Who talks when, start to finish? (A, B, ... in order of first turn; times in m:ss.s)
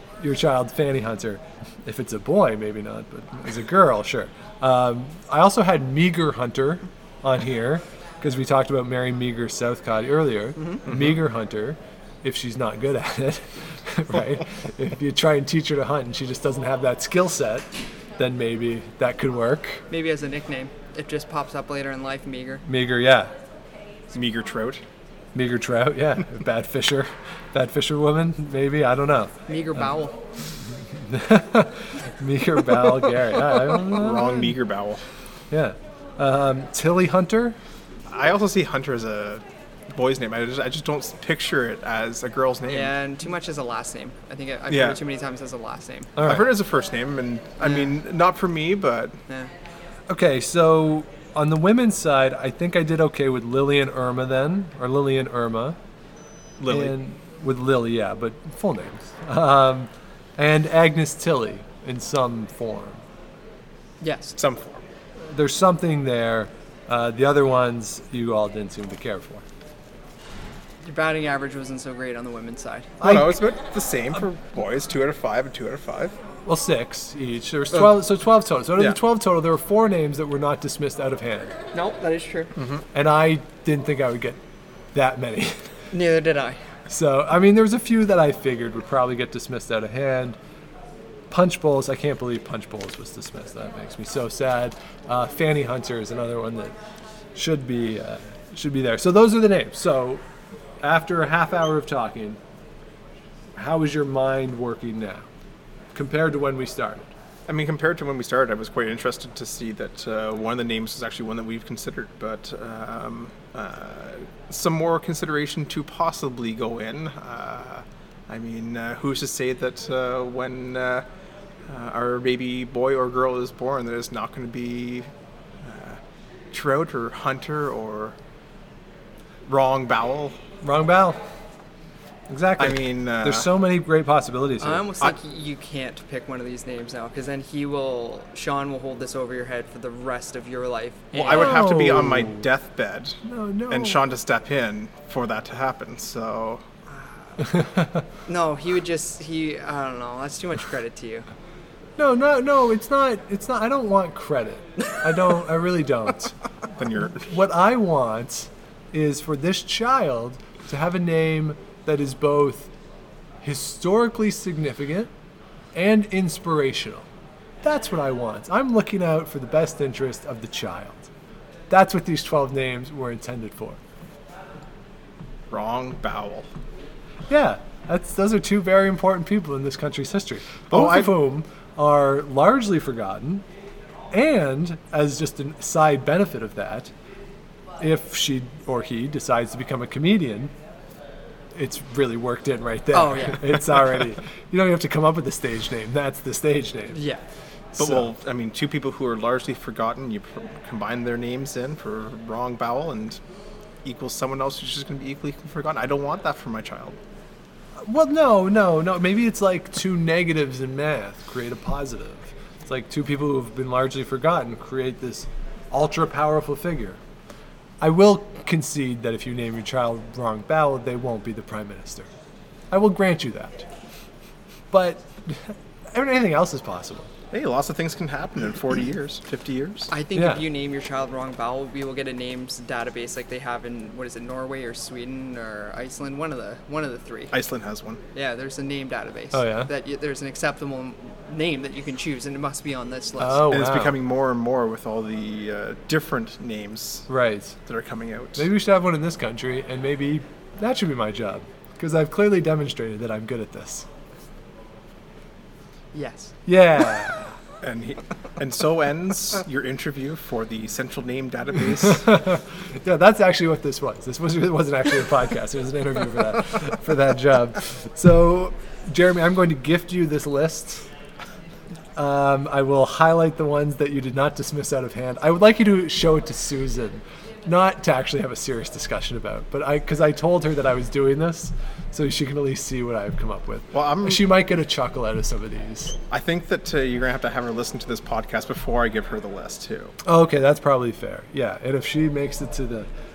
0:00.2-0:19.8 A
0:10.9-0:11.2 B
0:19.9-0:22.6 C
0:22.6-0:23.3 A
0:24.1-0:24.8 B
0:25.3-0:29.3 A
0:29.5-0:30.2 C
0:30.7-0:34.5 A
0:33.8-0:35.0 B
0:35.5-0:37.6 A
0:38.1-0:42.9 B
0:42.7-0:46.1 C
0:44.7-0:45.0 B
0:46.2-0:46.5 A
0:46.2-0:49.2 B
0:47.6-0:47.9 C
0:50.1-0:55.8 A
0:56.6-0:56.9 B
0:56.7-1:03.0 A
1:04.0-1:04.4 C
1:04.4-1:04.8 B
1:05.2-1:09.4 A
1:10.8-1:12.9 C
1:13.0-1:16.2 B
1:13.0-1:13.4 A
1:16.4-1:21.5 A
1:21.7-1:22.5 C
1:22.6-1:22.8 B
1:22.9-1:24.4 A
1:24.9-1:25.7 A
1:25.9-1:26.6 C
1:26.9-1:30.4 A
1:31.3-1:36.7 A
1:37.3-1:40.2 A
1:40.8-1:42.4 A
1:43.6-1:45.3 A
1:45.9-1:47.1 A
1:47.5-2:01.0 B
2:01.7-2:05.1 B
2:05.6-2:06.0 B
2:06.5-2:08.1 B
2:09.5-2:10.4 B
2:10.6-2:11.2 A
2:12.3-2:15.1 A
2:12.6-2:13.5 B
2:14.6-2:21.6 C
2:21.1-2:26.6 B
2:21.3-2:22.5 A
2:23.2-2:24.0 A
2:26.9-2:27.5 C
2:27.6-2:28.0 A
2:28.2-2:31.3 C
2:32.0-2:36.3 A
2:36.8-2:37.2 B
2:37.1-2:42.7 A
2:43.4-2:45.1 A
2:45.7-2:47.1 A
2:47.6-2:51.1 A
2:51.7-2:53.8 A
2:55.5-2:56.5 B
2:57.3-3:03.4 A
3:00.7-3:01.1 B
3:04.1-3:06.9 A
3:07.8-3:10.5 A
3:11.5-3:17.0 A
3:12.9-3:13.6 C
3:16.9-3:17.2 C
3:17.7-3:18.1 A
3:17.8-3:23.2 B
3:23.8-3:27.0 B
3:27.8-3:37.0 A
3:37.8-3:42.1 A
3:42.7-3:43.7 A
3:44.7-3:47.1 A
3:47.3-3:49.9 B
3:49.9-3:57.3 C
3:50.1-3:50.4 A
3:57.3-3:58.0 B
3:58.1-4:03.5 C
3:59.3-3:59.7 A
4:03.2-4:04.0 A
4:03.5-4:07.1 B
4:07.1-4:07.6 A
4:07.7-4:08.4 B
4:08.4-4:13.9 A
4:15.9-4:16.3 C
4:16.4-4:17.4 A
4:17.6-4:22.1 B
4:21.8-4:30.9 A
4:32.0-4:46.0 A
4:43.7-4:44.3 B
4:46.1-4:50.0 B
4:50.0-4:52.9 A